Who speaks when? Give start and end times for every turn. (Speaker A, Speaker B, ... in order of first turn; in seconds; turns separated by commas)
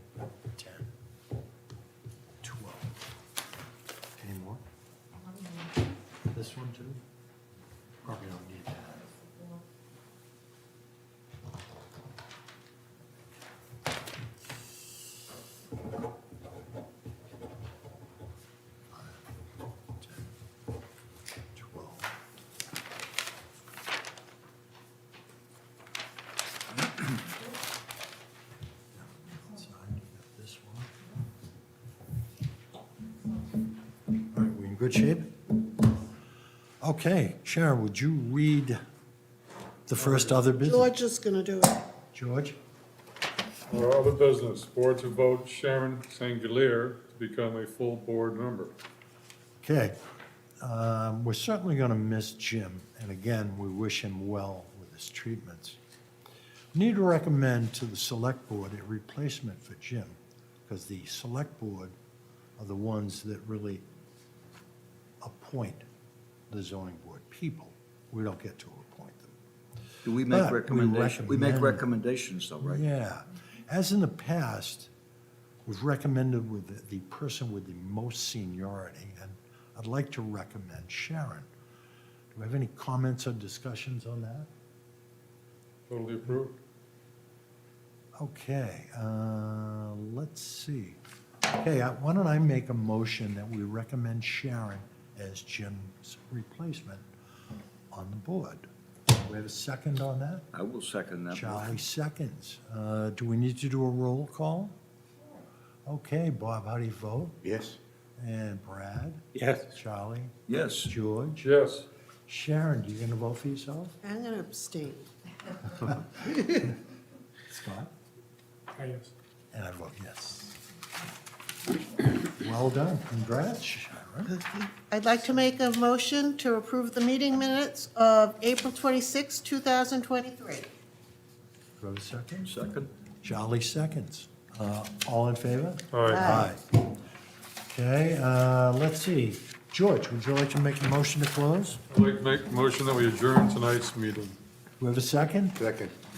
Speaker A: 0.5-0.9, Speaker A: 2.4-2.9, Speaker A: 4.2-4.6, Speaker A: 6.3-7.0, Speaker A: 8.0-9.1, Speaker A: 18.9-19.3, Speaker A: 20.0-20.3, Speaker A: 21.5-22.1, Speaker A: 28.9-30.9, Speaker A: 34.3-35.3, Speaker A: 36.8-38.8, Speaker A: 39.9-40.9, Speaker B: 40.0-40.3, Speaker C: 40.6-41.8, Speaker A: 42.1-42.6, Speaker B: 43.7-48.7, Speaker A: 49.6-50.0, Speaker A: 50.6-55.8, Speaker A: 56.7-61.9, Speaker A: 62.6-63.8, Speaker A: 65.2-65.8, Speaker A: 66.5-69.3, Speaker D: 70.0-72.8, Speaker A: 70.2-71.8, Speaker A: 72.6-74.9, Speaker A: 75.7-81.5, Speaker A: 82.3-84.5, Speaker B: 85.9-86.5, Speaker A: 88.2-91.0, Speaker A: 91.5-97.0, Speaker A: 97.9-98.7, Speaker A: 99.2-100.5, Speaker D: 100.5-101.8, Speaker A: 101.3-104.7, Speaker A: 105.8-107.4, Speaker D: 107.4-107.8, Speaker A: 108.2-111.5, Speaker D: 109.3-109.6, Speaker D: 110.5-110.9, Speaker B: 111.4-111.9, Speaker A: 112.3-114.0, Speaker C: 114.0-115.0, Speaker A: 115.8-116.6, Speaker A: 117.5-117.9, Speaker B: 118.8-119.1, Speaker A: 119.5-120.6, Speaker A: 122.3-124.3, Speaker C: 124.3-130.7, Speaker A: 131.8-132.5, Speaker D: 132.4-132.9, Speaker A: 133.2-136.6, Speaker B: 135.9-136.2, Speaker C: 136.1-136.5, Speaker A: 137.7-141.8, Speaker B: 141.9-144.4, Speaker A: 144.8-145.6, Speaker D: 145.6-145.9